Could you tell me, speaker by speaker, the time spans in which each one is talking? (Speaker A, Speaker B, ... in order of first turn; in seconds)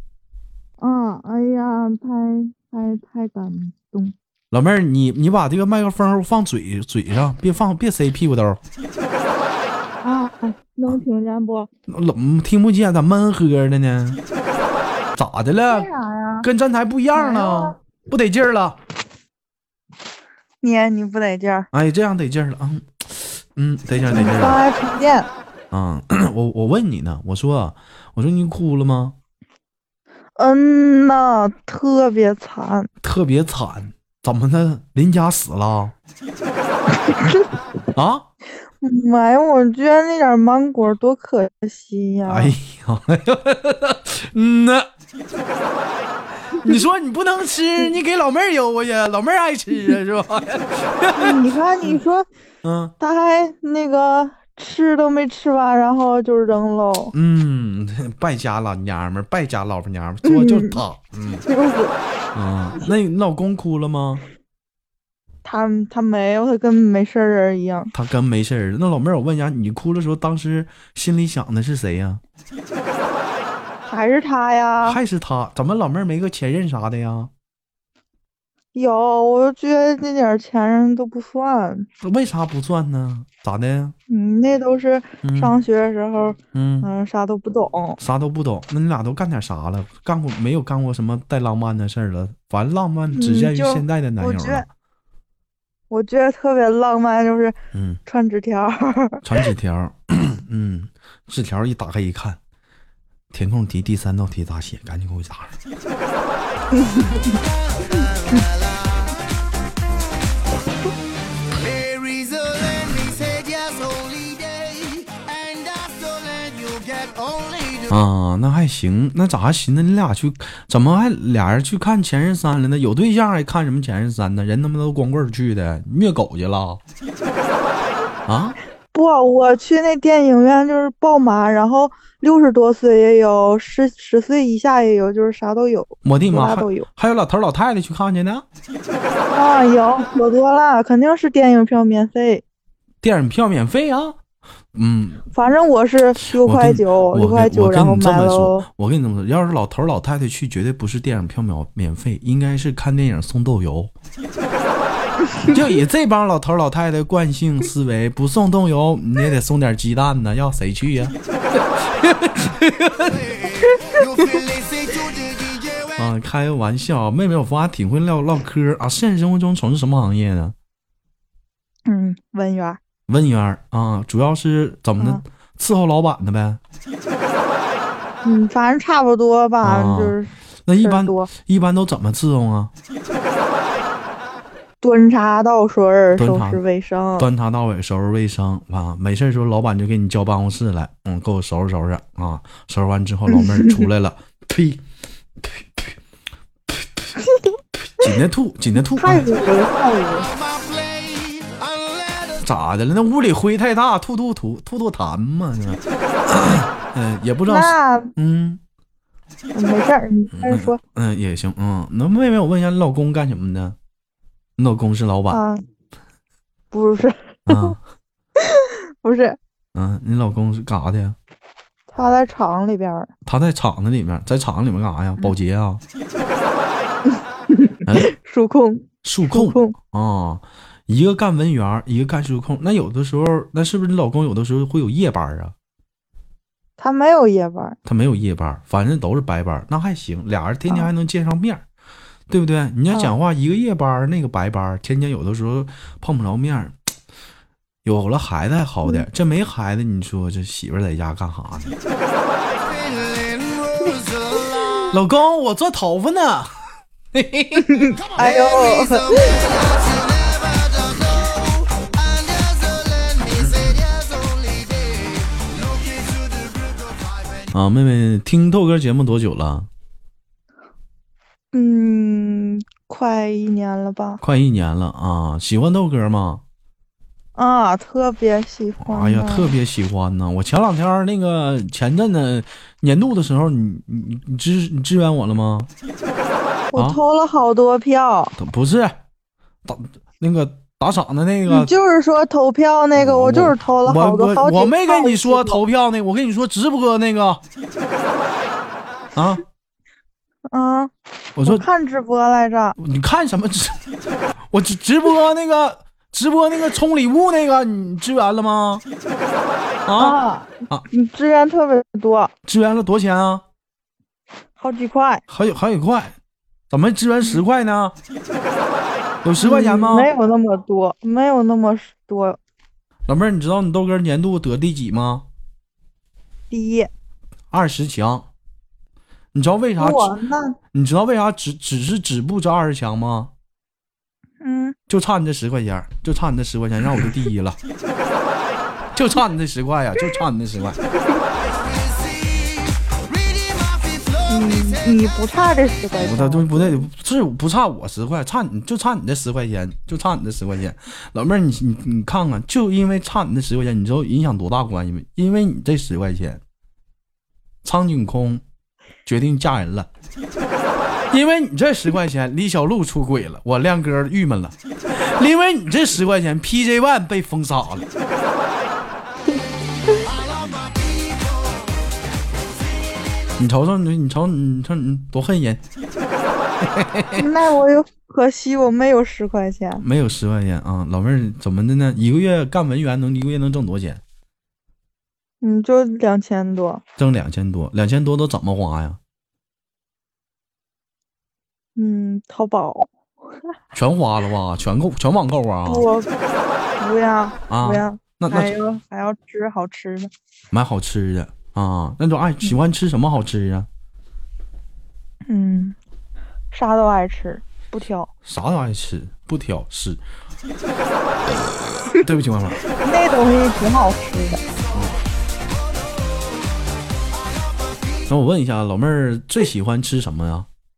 Speaker A: 0.8-4.1, 10.0-11.7, 15.7-16.5, 17.1-17.8, 20.6-21.7, 24.1-25.3, 30.4-32.9, 37.0-37.4, 38.8-42.5, 51.1-52.2, 53.0-57.1, 60.2-60.8, 61.5-61.9, 65.4-67.9, 73.8-75.0, 78.7-81.9, 84.1-88.0, 93.1-94.7, 95.9-97.5, 98.0-99.2, 106.7-107.3, 128.9-136.9, 139.3-142.4, 145.3-148.7, 171.9-172.8, 178.2-181.3, 184.8-187.3, 193.3-193.9, 197.2-197.6, 198.9-200.3, 207.5-208.1, 209.5-210.8, 215.3-215.6, 216.7-217.8, 218.4-219.4, 221.9-223.1, 227.5-229.7, 236.8-237.8, 257.6-259.1, 271.5-274.2, 277.4-279.5, 286.7-288.3, 291.5-295.6, 300.5-300.9, 301.4-302.8, 310.0-312.3, 314.6-315.2, 319.4-322.4, 326.5-326.9, 329.8-330.6, 334.4-334.8, 344.3-346.8, 369.3-370.0, 377.1-379.8, 385.4-386.8, 391.8-392.9, 395.6-396.1, 396.8-400.1, 405.3-405.8, 406.5-408.1, 412.7-414.4
Speaker B: 4.5-8.6, 11.9-14.2, 15.2-15.9, 16.4-18.8, 21.7-24.6, 25.7-29.1, 33.0-35.9, 37.9-38.3, 42.2-44.9, 46.6-52.0, 52.6-52.9, 57.1-61.4, 62.3-64.2, 67.9-72.2, 74.8-77.3, 82.0-83.9, 85.2-85.5, 86.5-86.9, 88.0-94.7, 97.7-98.0, 99.2-102.4, 103.3-105.5, 117.9-126.8, 128.3-128.6, 136.0-138.4, 143.0-144.2, 144.7-145.2, 146.3-153.9, 155.5-163.2, 166.0-170.5, 173.1-176.6, 179.6-182.7, 186.1-186.6, 187.2-194.8, 195.4-196.0, 196.7-197.1, 197.8-199.3, 202.4-208.6, 210.3-213.8, 214.6-215.4, 217.5-217.8, 219.7-221.2, 223.2-225.8, 229.0-235.5, 237.8-241.6, 242.3-246.8, 247.8-251.8, 254.9-256.5, 257.1-257.8, 267.5-269.7, 274.2-276.4, 278.8-285.7, 288.4-289.0, 289.6-291.7, 292.9-297.4, 299.1-299.4, 301.4-301.6, 302.8-303.8, 304.5-308.8, 309.9-310.2, 312.4-313.4, 315.3-316.1, 316.7-317.9, 319.2-320.1, 323.1-325.2, 327.5-328.3, 329.3-330.1, 330.7-333.3, 334.9-337.6, 338.9-340.8, 346.0-356.4, 357.6-358.4, 359.1-359.9, 361.1-367.9, 373.4-375.6, 376.6-377.2, 379.8-384.0, 387.0-389.0, 393.7-395.9, 397.5-398.5, 400.5-403.7, 408.2-410.0, 411.2-412.6, 414.7-415.0, 418.1-420.5
Speaker C: 107.2-109.1, 111.5-118.0, 163.0-166.0, 200.2-202.5, 252.6-254.9, 257.9-267.5, 341.4-345.1, 370.0-371.8, 372.6-373.3, 417.1-418.1